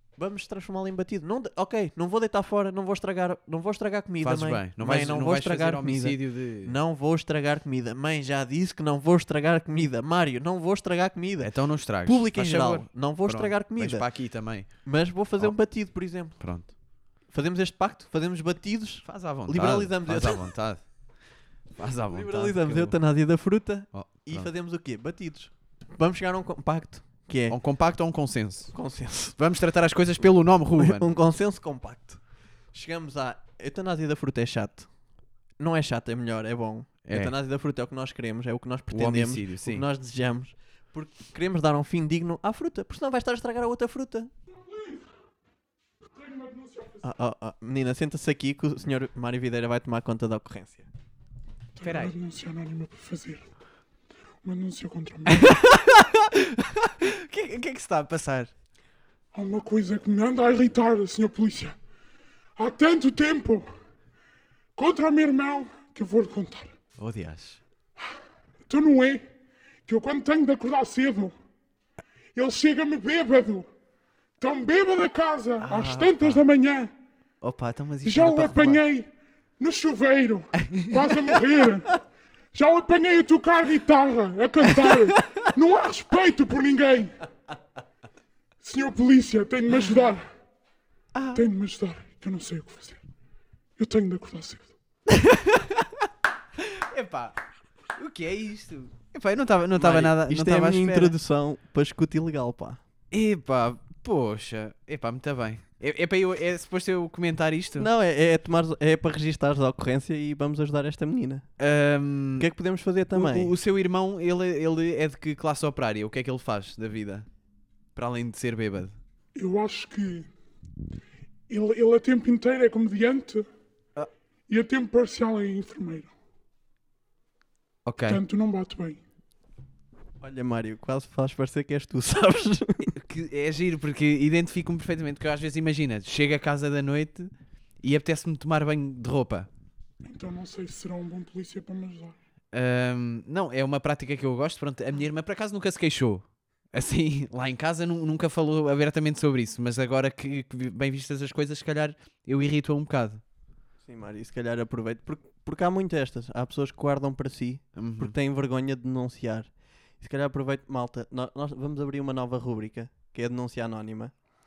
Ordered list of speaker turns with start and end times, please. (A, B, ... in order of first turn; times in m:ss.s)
0:00.2-0:16.4 A
0:04.2-0:06.7 B
0:11.4-0:14.8 B
0:16.4-0:16.7 B
0:17.3-0:20.5 A
0:19.0-0:21.0 B
0:21.8-0:23.0 B
0:22.1-0:27.6 A
0:23.9-0:24.5 B
0:27.5-0:28.7 B
0:28.7-0:29.4 A
0:29.4-0:31.1 B
0:30.8-0:34.9 A
0:35.6-0:44.3 A
0:37.0-0:37.3 B
0:38.9-0:39.8 B
0:44.7-0:45.0 C
0:46.1-0:47.0 C
0:47.0-0:50.9 A
0:51.8-0:53.4 C
0:51.8-0:52.1 B
0:54.4-0:55.7 C
0:55.3-0:58.5 B
0:59.3-1:01.8 C
1:02.6-1:03.6 C
1:04.8-1:06.7 C
1:07.0-1:07.6 B
1:08.7-1:09.2 C
1:09.9-1:11.3 C
1:12.4-1:13.6 C
1:14.4-1:16.9 C
1:15.6-1:16.4 B
1:17.4-1:18.8 B
1:18.0-1:19.1 C
1:19.6-1:22.0 C
1:20.6-1:21.0 B
1:22.5-1:27.2 C
1:24.9-1:25.4 B
1:28.6-1:30.2 C
1:31.1-1:31.5 B
1:31.3-1:33.0 C
1:33.8-1:34.7 C
1:35.1-1:37.4 B
1:38.0-1:41.2 B
1:39.7-1:42.8 A
1:43.1-1:47.9 B
1:47.8-1:51.5 A
1:51.6-1:52.5 B
1:52.4-1:53.5 A
1:53.1-1:57.3 B
1:58.0-1:59.0 B
1:59.4-2:00.3 C
2:01.5-2:03.5 C
2:04.5-2:06.1 C
2:07.8-2:08.2 B
2:08.1-2:09.0 C
2:10.2-2:13.0 A
2:13.0-2:17.3 B
2:17.8-2:19.5 B
2:20.0-2:22.2 C
2:22.5-2:33.2 B
2:33.8-2:44.1 A
2:37.8-2:38.1 B